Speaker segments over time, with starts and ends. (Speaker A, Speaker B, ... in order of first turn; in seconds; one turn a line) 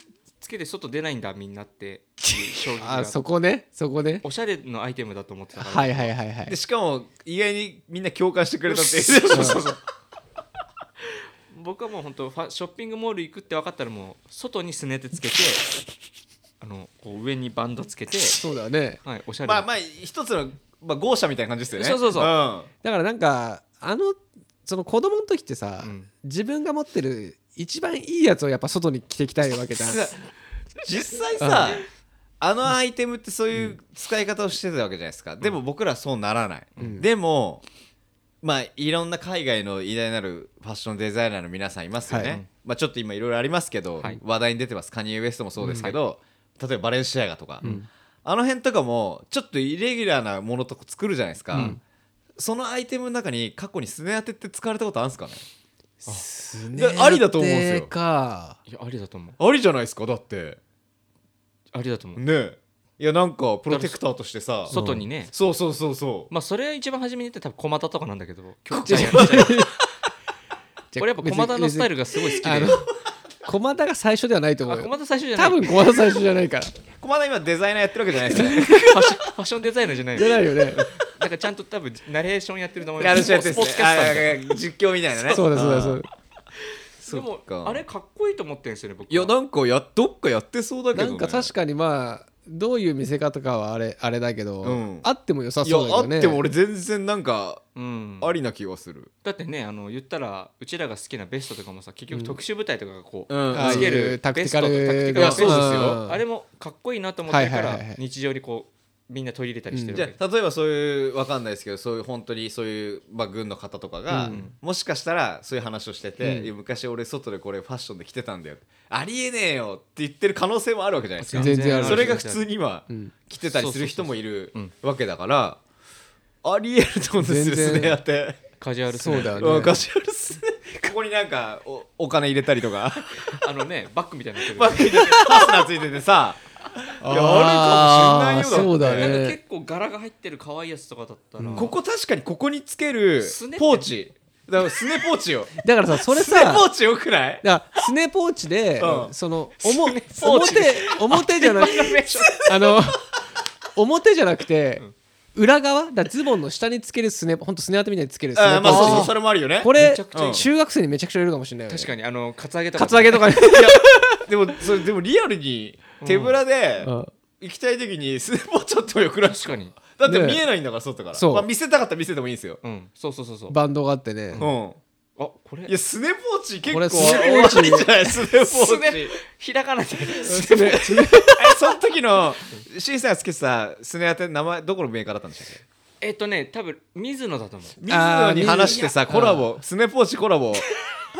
Speaker A: 0.4-3.2
Speaker B: 2.6-4.2
Speaker A: 4.2-6.1
Speaker B: 5.6-6.6
Speaker C: 6.5-9.8
Speaker A: 8.8-9.7
Speaker B: 9.3-9.6
Speaker A: 11.5-15.7
Speaker A: 16.6-18.4
Speaker B: 18.3-19.0
Speaker A: 19.0-19.7
Speaker C: 19.4-22.7
Speaker A: 21.7-22.3
Speaker B: 22.8-30.0
Speaker A: 25.8-26.1
Speaker C: 29.8-30.2
Speaker C: 30.8-31.8
Speaker B: 31.4-31.8
Speaker C: 32.4-37.6
Speaker B: 36.8-37.1
Speaker C: 38.4-47.7
Speaker B: 42.1-42.4
Speaker A: 42.2-42.5
Speaker A: 45.6-46.0
Speaker C: 48.2-51.8
Speaker A: 51.5-51.8
Speaker B: 51.5-51.8
Speaker C: 52.4-55.4
Speaker B: 56.0-58.6
Speaker C: 56.8-57.9
Speaker A: 58.7-59.4
Speaker C: 59.4-60.6
Speaker A: 61.7-62.2
Speaker C: 62.2-64.7
Speaker A: 63.7-64.0
Speaker A: 64.7-65.3
Speaker B: 64.7-65.0
Speaker C: 65.3-66.3
Speaker A: 66.3-69.6
Speaker C: 68.8-69.7
Speaker B: 68.8-69.8
Speaker B: 70.9-72.9
Speaker A: 71.0-72.8
Speaker B: 73.5-76.7
Speaker A: 74.7-76.1
Speaker C: 77.0-79.1
Speaker B: 78.3-79.0
Speaker A: 78.5-84.6
Speaker B: 80.2-80.8
Speaker C: 83.0-86.0
Speaker A: 85.2-85.4
Speaker B: 85.3-86.1
Speaker C: 87.0-87.8
Speaker A: 87.1-89.3
Speaker C: 89.1-91.5
Speaker B: 90.9-96.4
Speaker C: 94.6-95.1
Speaker C: 95.6-97.7
Speaker A: 97.8-98.3
Speaker C: 98.2-99.1
Speaker A: 99.2-110.2
Speaker C: 103.3-104.0
Speaker B: 103.5-106.2
Speaker C: 105.2-106.0
Speaker B: 107.3-108.0
Speaker B: 109.7-110.0
Speaker C: 109.9-125.6
Speaker B: 114.1-114.4
Speaker A: 114.3-114.5
Speaker B: 116.2-116.5
Speaker A: 121.2-122.4
Speaker B: 121.3-122.2
Speaker A: 123.5-124.7
Speaker C: 126.4-128.4
Speaker B: 127.2-128.0
Speaker A: 128.6-129.7
Speaker B: 129.0-129.8
Speaker C: 129.1-133.4
Speaker A: 133.2-135.3
Speaker C: 134.5-139.2
Speaker B: 137.0-139.4
Speaker A: 138.5-141.7
Speaker B: 141.4-141.7
Speaker C: 141.6-147.4
Speaker A: 143.2-143.9
Speaker B: 145.6-146.7
Speaker B: 147.4-153.1
Speaker C: 148.8-149.1
Speaker A: 149.6-152.5
Speaker B: 153.7-154.8
Speaker B: 155.3-161.9
Speaker C: 158.3-160.4
Speaker A: 158.7-160.5
Speaker A: 161.7-163.4
Speaker B: 162.8-164.2
Speaker C: 163.4-172.6
Speaker A: 166.0-166.4
Speaker B: 166.8-167.1
Speaker A: 169.3-169.8
Speaker B: 170.1-170.4
Speaker B: 171.1-171.5
Speaker A: 172.6-173.6
Speaker B: 173.5-174.4
Speaker C: 174.4-174.8
Speaker A: 175.2-175.7
Speaker C: 175.7-179.1
Speaker B: 176.7-177.9
Speaker A: 177.0-177.6
Speaker A: 178.4-181.3
Speaker B: 180.2-181.5
Speaker C: 181.4-185.6
Speaker A: 186.0-187.8
Speaker C: 187.8-190.7
Speaker B: 187.9-189.5
Speaker A: 188.5-188.9